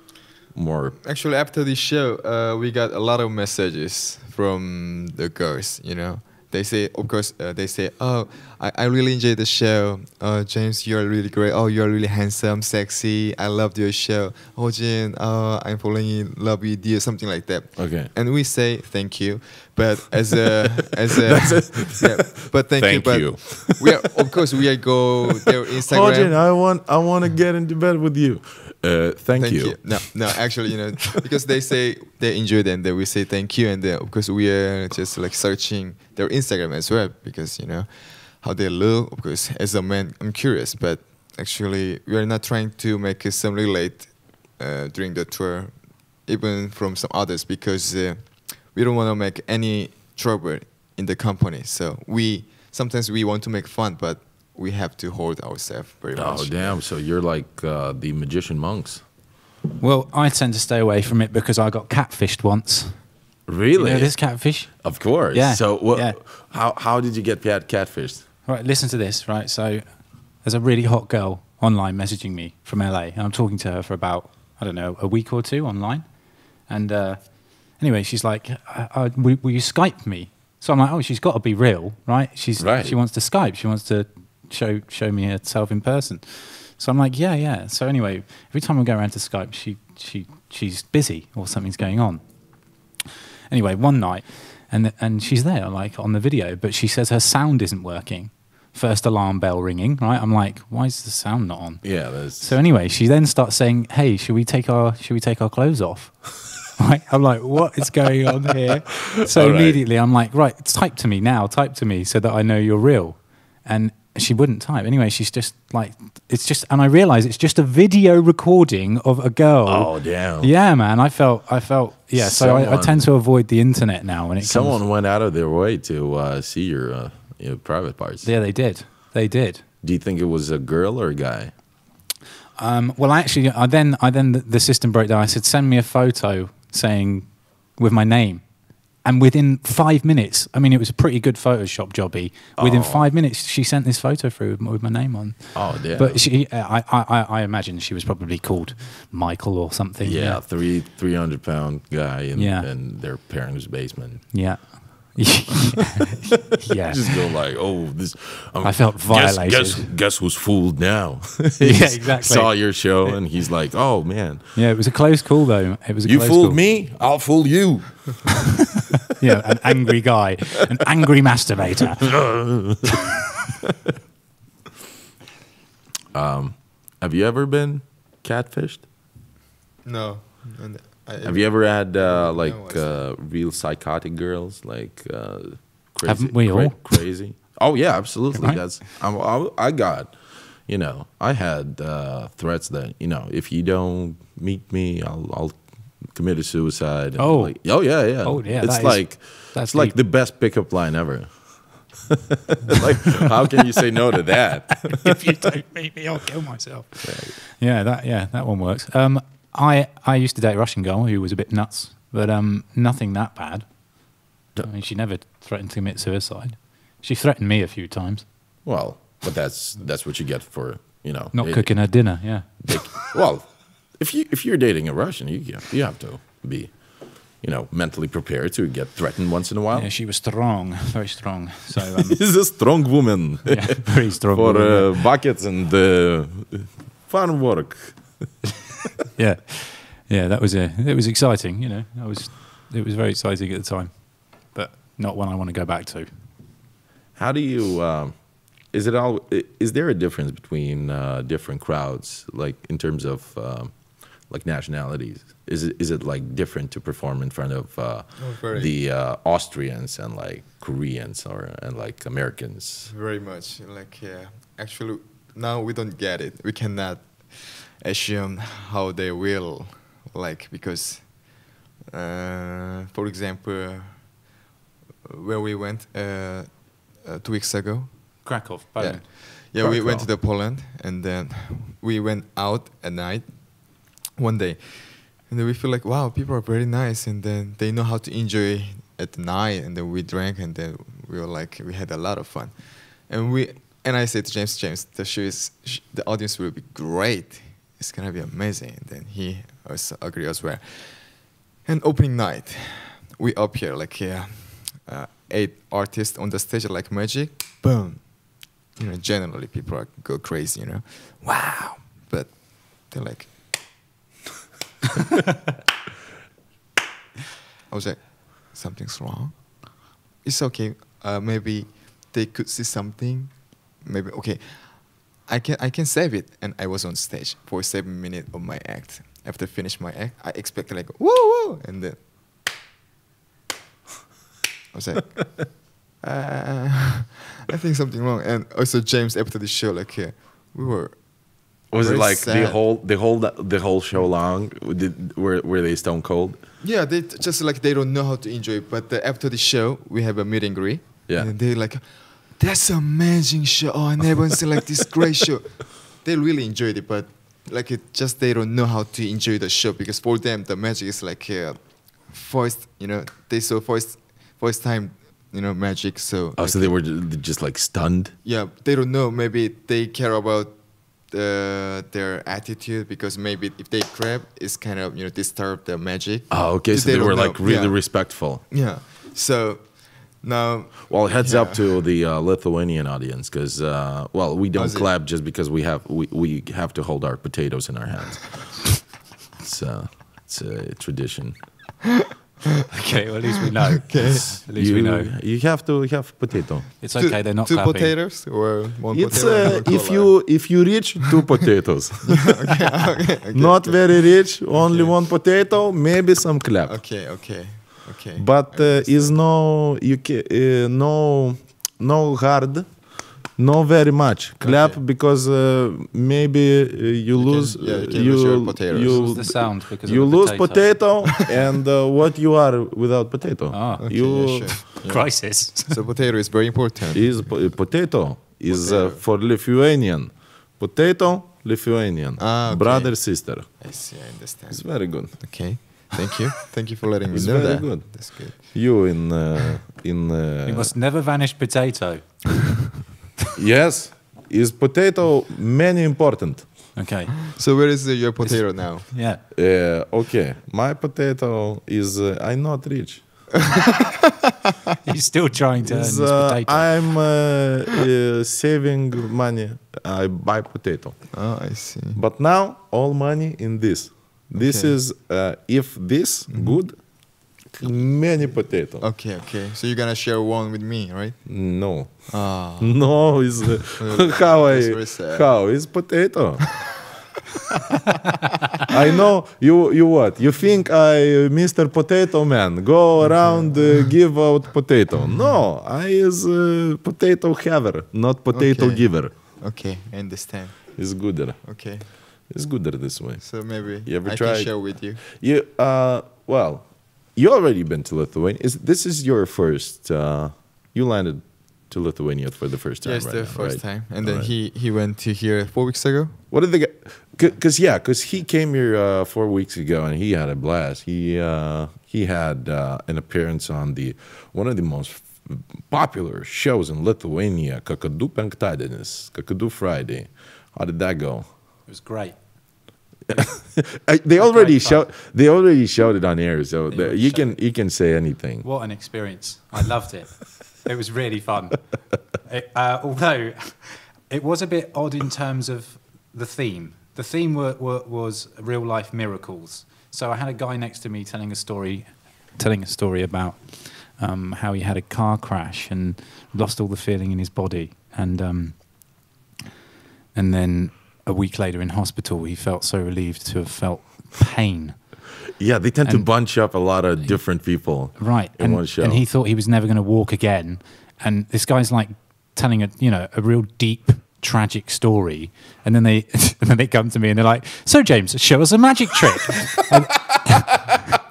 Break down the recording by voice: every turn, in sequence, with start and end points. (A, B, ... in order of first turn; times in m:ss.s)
0:00.5-0:01.0 A
0:01.0-0:26.4 B
0:17.8-0:18.1 A
0:21.4-0:24.0 A
0:25.8-0:30.2 A
0:29.4-0:56.8 B
0:56.2-0:59.0 A
0:59.8-1:03.0 C
1:03.5-1:04.1 A
1:03.8-1:06.2 C
1:04.8-1:08.2 A
1:08.5-1:09.8 C
1:10.4-1:16.0 C
1:16.7-1:17.2 C
1:17.8-1:32.2 C
1:22.6-1:23.0 A
1:33.5-2:04.8 C
1:41.8-1:42.6 A
1:49.2-1:49.8 A
1:59.7-2:00.5 A
2:02.2-2:03.0 A
2:04.4-2:08.3 A
2:08.2-2:09.6 C
2:09.8-2:11.5 A
2:12.6-2:18.4 C
2:19.0-2:30.4 C
2:22.6-2:23.1 A
2:25.6-2:26.2 A
2:30.0-2:34.2 A
2:32.4-2:32.7 C
2:34.3-2:37.3 C
2:36.8-2:44.4 A
2:38.6-2:39.9 C
2:41.6-2:43.2 C
2:44.6-2:46.6 C
2:46.0-2:48.3 A
2:48.4-2:52.2 C
2:52.0-2:53.8 A
2:56.1-2:58.8 A
2:59.8-3:03.0 B
3:01.2-3:10.1 A
3:06.0-3:06.9 C
3:08.3-3:08.6 C
3:10.7-3:15.6 A
3:16.1-3:21.3 A
3:17.2-3:20.0 C
3:22.1-3:25.4 A
3:24.8-3:33.6 C
3:27.0-3:27.4 A
3:34.6-3:38.2 C
3:38.6-3:41.7 A
3:41.3-3:42.9 C
3:42.6-3:46.8 A
3:47.4-3:49.9 A
3:49.7-3:52.2 C
3:51.9-3:58.0 A
3:53.5-3:55.0 C
3:59.2-4:03.9 C
4:04.4-4:06.1 C
4:07.2-4:08.1 A
4:08.7-4:13.7 A
4:14.3-4:22.9 A
4:18.2-4:18.7 B
4:22.9-4:34.2 B
4:35.1-4:38.3 B
4:38.2-4:39.1 C
4:38.8-5:13.3 B
4:39.6-4:40.1 A
5:17.7-5:19.6 B
5:20.2-5:32.0 B
5:34.7-5:41.0 B
5:41.7-5:46.4 A
5:41.8-5:42.6 B
5:46.6-6:06.8 B
6:06.4-6:08.1 A
6:08.2-6:10.6 B
6:11.1-6:17.8 B
6:16.3-6:18.4 A
6:18.5-6:21.8 B
6:20.9-6:28.6 A
6:24.6-6:24.9 B
6:29.4-6:31.4 A
6:32.7-6:35.1 C
6:33.7-6:34.3 B
6:34.3-6:36.7 A
6:36.8-6:37.9 C
6:37.0-6:40.2 B
6:38.9-6:42.5 A
6:42.0-6:44.9 B
6:43.3-6:46.8 A
6:46.7-6:49.2 B
6:48.2-6:52.8 A
6:53.4-7:04.6 A
6:54.4-6:54.8 B
6:57.1-6:59.0 B
6:58.8-7:00.8 C
7:03.5-7:03.9 C
7:03.8-7:07.3 B
7:04.7-7:05.8 C
7:06.9-7:13.5 A
7:08.5-7:09.0 B
7:12.2-7:13.0 B
7:13.6-7:18.6 B
7:14.5-7:15.2 A
7:17.1-7:20.7 A
7:20.5-7:22.6 C
7:23.4-7:26.5 A
7:26.8-7:27.3 C
7:27.3-7:28.9 B
7:28.2-7:29.2 C
7:29.3-7:33.0 A
7:33.5-7:34.3 B
7:34.8-7:36.7 C
7:35.6-7:41.0 A
7:41.1-7:42.0 B
7:42.0-7:46.8 A
7:44.4-7:44.8 B
7:46.3-7:46.6 B
7:47.5-7:48.8 A
7:48.8-7:51.2 B
7:51.3-7:52.1 A
7:52.1-7:52.8 B
7:52.6-7:56.4 A
7:53.7-7:55.3 B
7:58.6-8:09.1 A
8:03.2-8:03.8 B
8:08.3-8:10.7 B
8:10.8-8:11.4 A
8:11.4-8:11.9 B
8:12.3-8:13.2 A
8:13.2-8:15.0 B
8:13.8-8:24.3 A
8:22.8-8:26.2 B
8:26.3-8:41.2 A
8:41.7-8:42.2 C
8:43.1-8:48.5 A
8:44.2-8:44.8 C
8:46.7-8:47.4 C
8:48.4-8:51.6 C
8:52.3-9:08.7 C
9:10.2-9:14.8 C
9:15.4-9:19.0 A
9:18.0-9:30.8 C